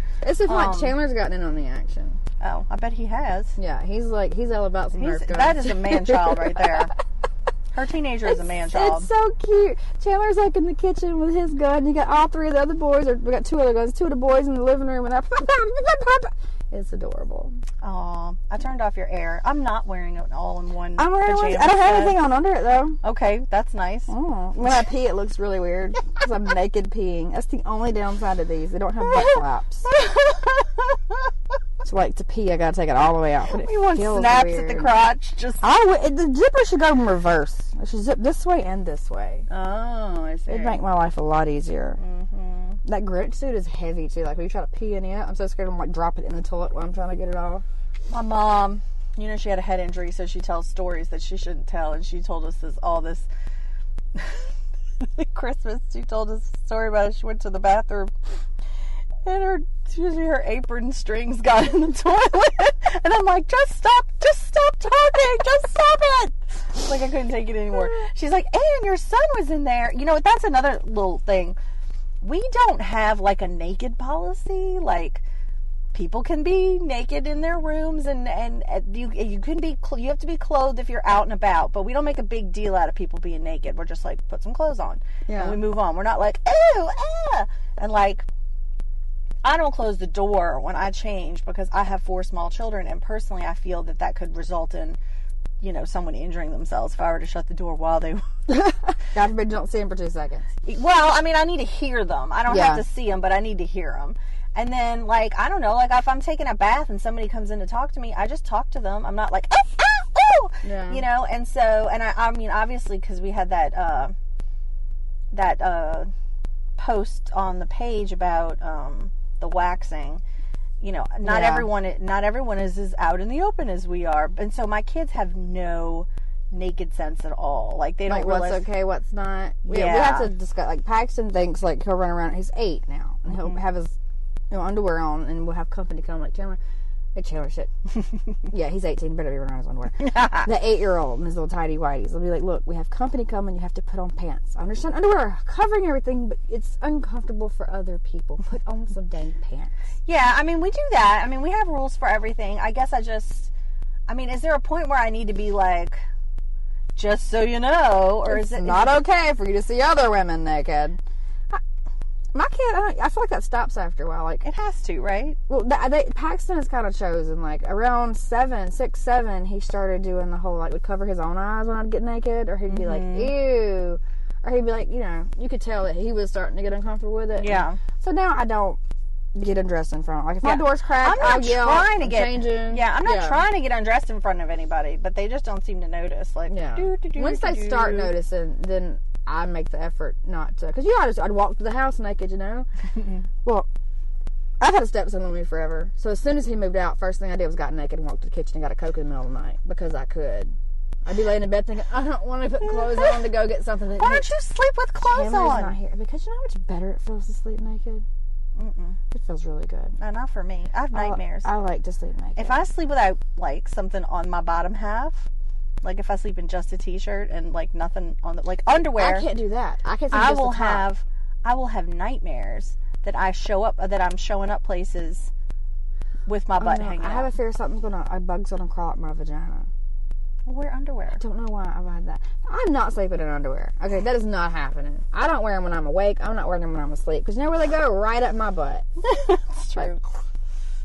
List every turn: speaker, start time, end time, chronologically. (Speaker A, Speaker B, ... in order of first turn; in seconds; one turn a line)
Speaker A: 0.2-2.2
Speaker B: 0.5-1.0
Speaker B: 2.4-3.6
Speaker A: 3.6-6.8
Speaker B: 5.0-6.9
Speaker B: 7.7-9.1
Speaker A: 8.3-17.6
Speaker B: 17.8-22.2
Speaker A: 21.0-23.0
Speaker B: 23.0-24.1
Speaker A: 24.1-29.9
Speaker B: 29.1-31.0
Speaker A: 31.8-35.0
Speaker B: 33.5-35.6
Speaker A: 35.6-39.5
Speaker B: 39.5-40.8
Speaker A: 40.5-42.0
Speaker B: 42.0-42.8
Speaker A: 42.9-47.6
Speaker B: 48.1-53.3
Speaker B: 54.1-54.4
Speaker B: 55.0-58.1
Speaker B: 59.2-71.6
Speaker B: 72.2-75.2
Speaker B: 75.9-88.3
Speaker A: 85.3-85.6
Speaker B: 89.4-95.0
Speaker B: 95.6-98.3
Speaker A: 98.5-100.5
Speaker B: 100.7-114.2
Speaker A: 102.5-102.8
Speaker A: 110.6-111.0
Speaker B: 115.3-116.1
Speaker B: 116.8-120.2
Speaker B: 120.8-128.6
Speaker A: 121.2-121.7
Speaker A: 128.1-134.0
Speaker B: 129.7-130.3
Speaker A: 134.5-136.6
Speaker A: 137.2-137.7
Speaker A: 138.5-149.7
Speaker B: 150.1-153.5
Speaker B: 154.1-156.0
Speaker B: 156.9-159.0
Speaker A: 158.3-161.0
Speaker A: 162.3-164.4
Speaker B: 164.4-165.4
Speaker A: 165.5-178.8
Speaker B: 172.7-173.3
Speaker B: 177.4-177.8
Speaker A: 179.3-183.4
Speaker B: 180.4-188.1
Speaker A: 186.5-192.7
Speaker A: 194.6-200.5
Speaker A: 201.1-204.3
Speaker B: 204.0-205.8
Speaker A: 205.0-208.1
Speaker B: 208.6-209.0
Speaker A: 209.1-210.0
Speaker B: 210.0-211.5
Speaker A: 210.9-212.6
Speaker B: 212.4-215.3
Speaker B: 215.8-219.3
Speaker A: 219.0-220.9
Speaker B: 220.1-225.3
Speaker B: 226.3-227.3
Speaker A: 226.6-229.7
Speaker B: 230.5-231.2
Speaker A: 231.2-238.9
Speaker B: 239.0-240.1